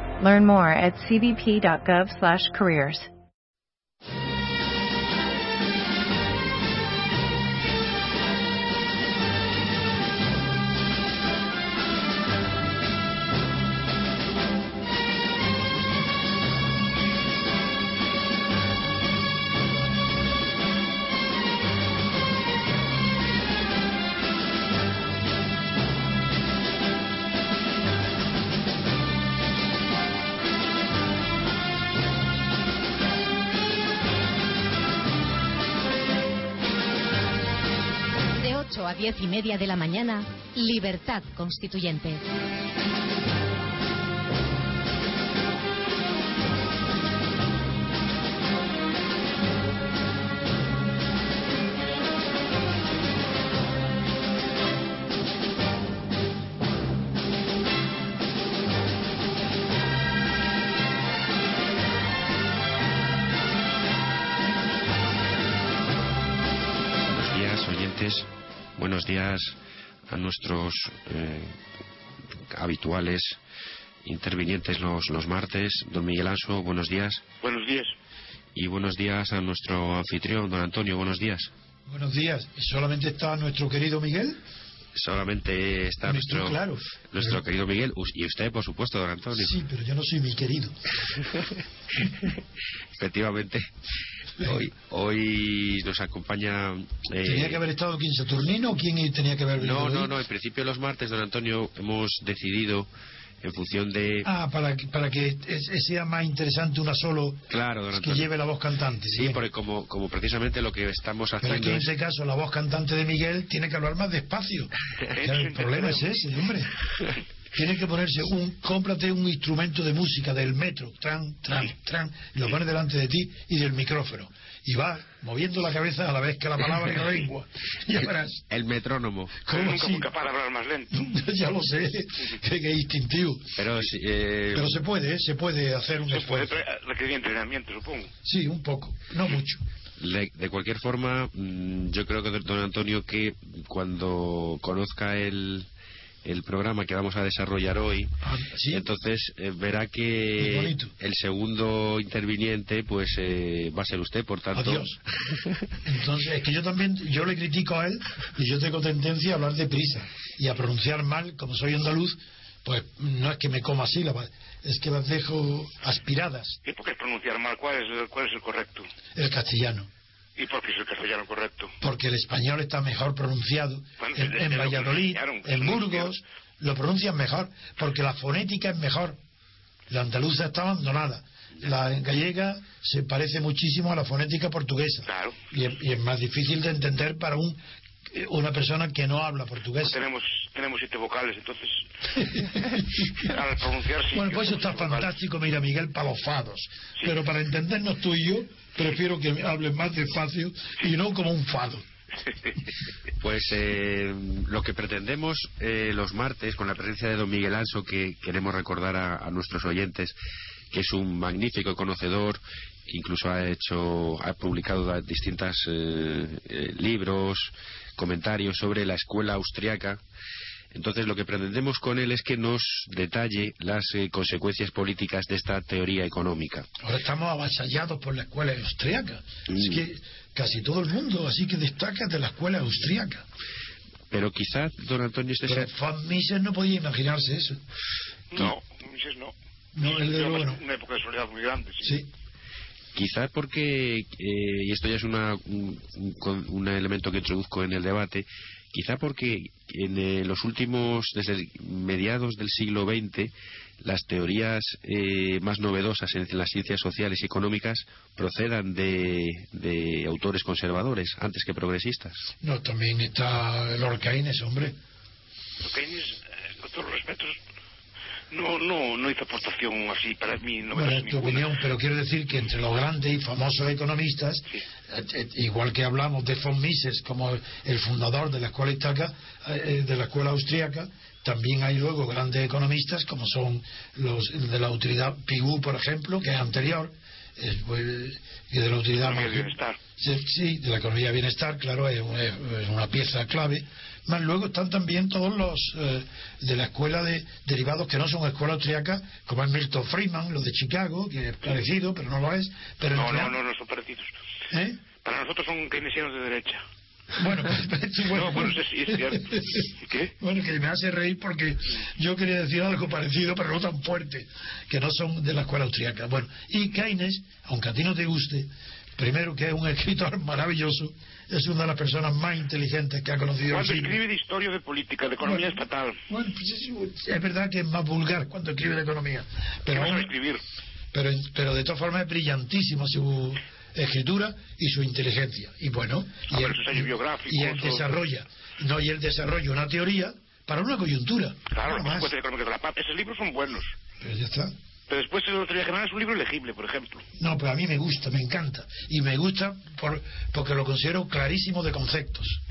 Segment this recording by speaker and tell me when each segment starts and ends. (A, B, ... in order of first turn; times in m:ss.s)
0:00.2-0:03.1 A
0:38.4-0:42.2 B
1:07.1-1:09.6 C
1:10.1-1:11.5 C
1:12.5-1:13.4 C
1:14.0-1:17.2 C
1:17.4-1:17.9 D
1:18.6-1:21.5 C
1:21.9-1:24.4 E
1:24.9-1:26.6 C
1:26.0-1:27.4 E
1:27.1-1:29.6 C
1:29.3-1:30.8 E
1:33.0-1:33.7 C
1:34.4-1:37.6 C
1:37.2-1:40.2 E
1:39.6-1:42.9 C
1:43.4-1:44.3 C
1:44.2-1:49.4 E
1:47.5-1:48.3 C
1:49.1-1:51.9 C
1:51.4-1:56.7 E
1:55.1-1:56.2 D
1:57.5-2:08.4 E
2:08.5-2:09.4 C
2:09.4-2:10.1 E
2:09.5-2:11.0 D
2:10.9-2:13.9 E
2:13.6-2:14.8 C
2:14.5-2:16.6 E
2:16.1-2:18.1 D
2:18.2-2:19.6 E
2:20.0-2:25.7 C
2:26.2-2:28.1 C
2:28.2-2:28.9 E
2:28.7-2:34.9 C
2:30.4-2:30.9 E
2:34.5-2:35.0 E
2:35.8-2:46.6 E
2:46.6-2:48.9 D
2:49.2-2:49.9 E
2:50.4-2:51.8 D
2:51.8-2:59.2 E
2:54.0-2:56.1 D
2:59.9-3:10.0 E
3:05.1-3:05.4 D
3:09.8-3:15.1 D
3:12.1-3:13.3 E
3:14.1-3:21.9 E
3:22.3-3:22.5 D
3:23.2-3:30.2 C
3:30.7-3:40.0 C
3:40.7-3:46.7 C
3:46.8-3:53.2 E
3:49.5-3:49.8 C
3:54.1-3:55.7 C
3:55.4-3:57.6 E
3:58.3-4:02.0 D
3:59.8-4:00.6 E
4:01.8-4:02.1 E
4:02.9-4:22.2 C
4:22.4-4:24.8 E
4:25.6-4:27.4 D
4:28.3-4:31.5 D
4:30.7-5:03.4 E
4:49.0-4:49.8 D
5:02.9-5:04.1 D
5:04.5-5:04.8 E
5:05.0-5:06.6 D
5:07.1-5:24.0 E
5:08.1-5:10.1 D
5:23.5-5:26.0 D
5:25.2-5:30.1 E
5:29.7-5:30.4 D
5:30.9-5:42.1 E
5:36.3-5:38.0 D
5:41.5-5:43.8 D
5:44.0-5:44.5 E
5:44.9-5:47.0 D
5:47.2-5:52.4 E